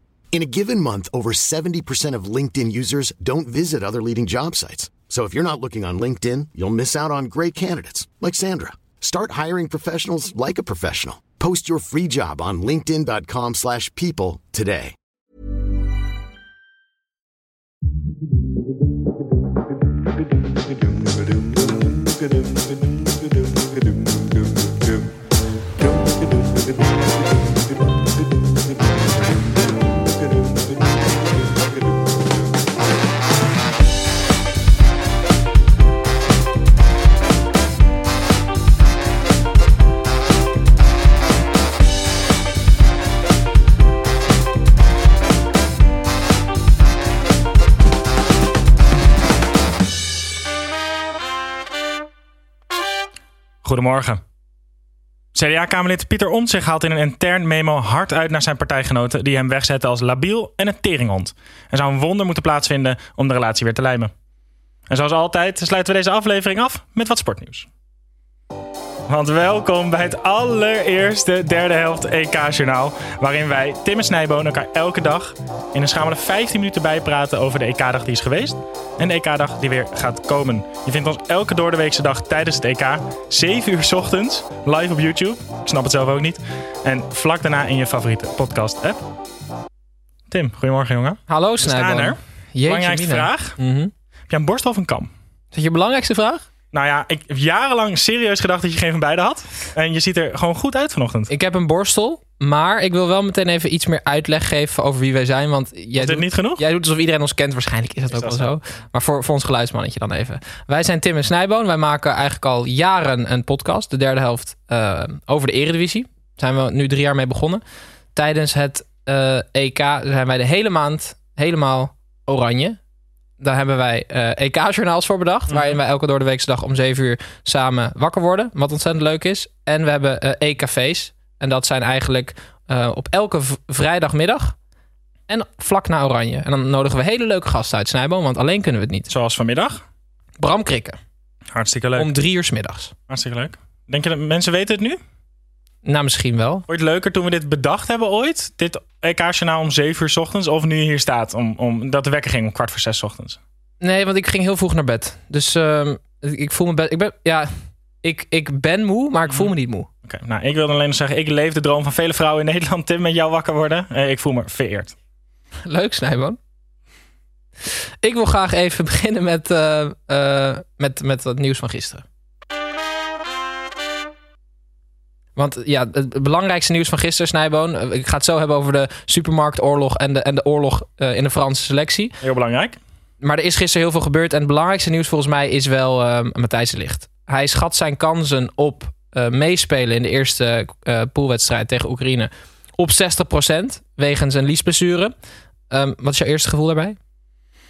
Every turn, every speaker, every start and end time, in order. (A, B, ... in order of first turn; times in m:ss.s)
0:00.3-0:14.9 A
0:53.6-0:54.2 B
0:55.3-1:04.1 B
1:04.9-1:07.7 B
1:09.1-1:29.0 B
1:30.3-1:33.6 B
1:31.3-1:33.9 C
1:34.3-1:35.1 B
1:35.5-1:36.4 C
1:36.7-1:41.3 B
1:41.3-1:57.6 C
1:46.0-1:46.6 B
1:48.1-1:48.5 B
1:58.1-2:02.8 C
2:03.4-2:14.5 C
2:05.5-2:05.8 B
2:15.3-2:19.1 C
2:19.1-2:19.8 B
2:20.4-2:21.0 C
2:21.5-2:22.1 B
2:22.0-2:22.9 C
2:23.1-2:25.0 B
2:25.8-2:26.6 C
2:26.7-2:33.4 B
2:33.8-2:37.5 C
2:38.0-2:39.9 C
2:39.3-2:39.5 B
2:40.0-2:44.9 B
2:45.6-2:46.4 C
2:48.0-2:52.0 C
2:55.4-3:02.2 C
3:02.2-3:02.8 B
3:03.2-3:15.1 C
3:15.7-3:17.0 C